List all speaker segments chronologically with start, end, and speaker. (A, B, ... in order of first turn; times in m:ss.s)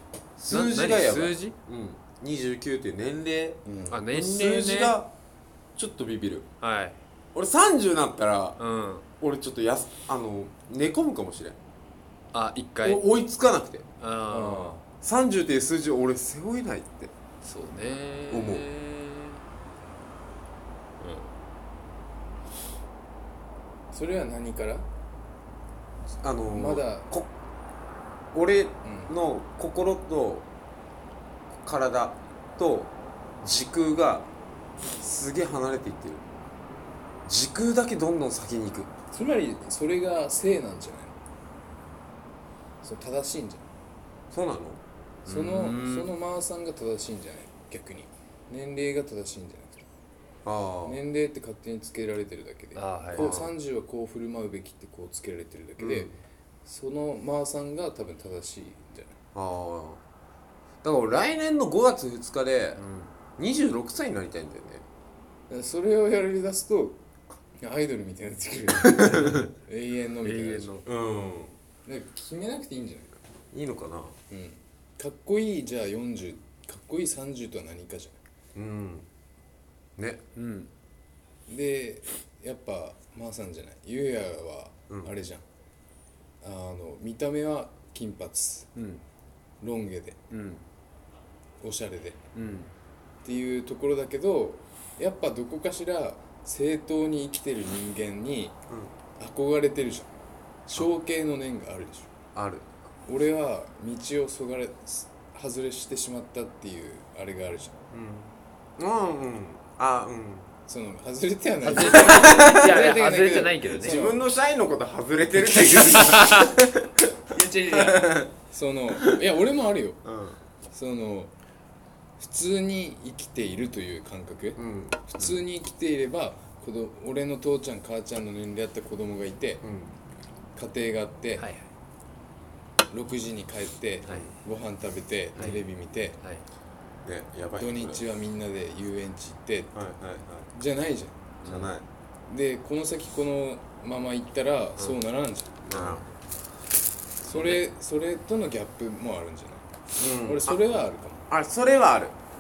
0:00.4-0:05.1 A
0:00.5-0:01.6 B
0:03.7-0:04.0 C
0:03.9-0:05.0 B
0:05.8-0:06.5 A
0:06.6-0:07.0 B
0:07.4-0:08.6 A
0:08.6-0:09.0 B
0:09.2-0:11.6 A
0:12.3-0:13.0 B
0:12.8-0:13.9 A
0:14.0-0:14.8 B
0:14.3-0:14.8 C
0:15.0-0:17.1 A
0:17.4-0:19.4 B
0:18.3-0:18.7 A
0:21.0-0:21.3 B
0:23.9-0:24.9 C
0:26.2-0:27.3 A
0:26.5-0:27.1 C
0:28.3-0:30.5 A
0:28.8-0:29.2 C
0:31.6-0:34.3 A
0:35.0-0:36.2 A
0:37.2-0:38.9 A
0:39.1-0:41.2 C
0:42.8-0:43.6 C
0:44.3-0:44.8 A
0:45.3-0:46.1 B
0:45.3-0:49.8 C
0:50.4-0:51.0 A
0:50.8-0:56.1 C
0:52.8-0:53.5 B
0:53.1-0:53.5 A
0:55.8-0:56.1 A
0:56.6-0:59.2 C
0:59.4-1:00.0 A
1:00.8-1:02.8 A
1:02.8-1:03.1 B
1:03.4-1:04.8 A
1:05.5-1:07.0 C
1:07.6-1:10.8 C
1:08.8-1:09.5 A
1:09.1-1:09.5 B
1:10.2-1:10.8 B
1:10.8-1:11.6 A
1:11.8-1:13.2 C
1:13.5-1:14.2 A
1:14.3-1:18.2 C
1:18.6-1:19.1 A
1:20.0-1:20.2 A
1:20.4-1:20.7 B
1:21.5-1:25.4 C
1:26.4-1:28.7 C
1:28.8-1:29.0 B
1:29.6-1:30.2 C
1:30.3-1:30.6 B
1:31.6-1:32.2 C
1:32.4-1:32.7 B
1:33.2-1:38.6 C
1:38.7-1:39.0 A
1:39.2-1:40.1 C
1:40.7-1:42.1 C
1:42.4-1:42.7 A
1:43.1-1:47.8 C
1:47.9-1:50.5 A
1:50.7-1:54.2 C
1:51.6-1:54.0 B
1:51.7-1:52.9 A
1:53.7-1:58.4 A
1:56.0-1:56.5 B
1:57.4-1:58.0 B
1:57.4-1:57.9 C
1:58.4-2:00.0 C
1:59.0-1:59.2 A
2:00.0-2:00.4 A
2:00.7-2:01.3 C
2:02.2-2:09.6 C
2:04.6-2:05.1 A
2:09.6-2:10.0 A
2:10.6-2:11.5 C
2:11.4-2:11.7 B
2:12.9-2:16.2 C
2:15.4-2:15.6 B
2:17.0-2:18.0 A
2:17.6-2:19.7 C
2:19.8-2:20.5 A
2:20.5-2:21.4 C
2:21.4-2:21.7 B
2:21.4-2:21.8 A
2:22.3-2:26.0 C
2:25.7-2:26.1 A
2:25.7-2:26.0 B
2:27.2-2:31.3 C
2:27.3-2:27.6 B
2:30.0-2:30.7 A
2:31.3-2:32.2 A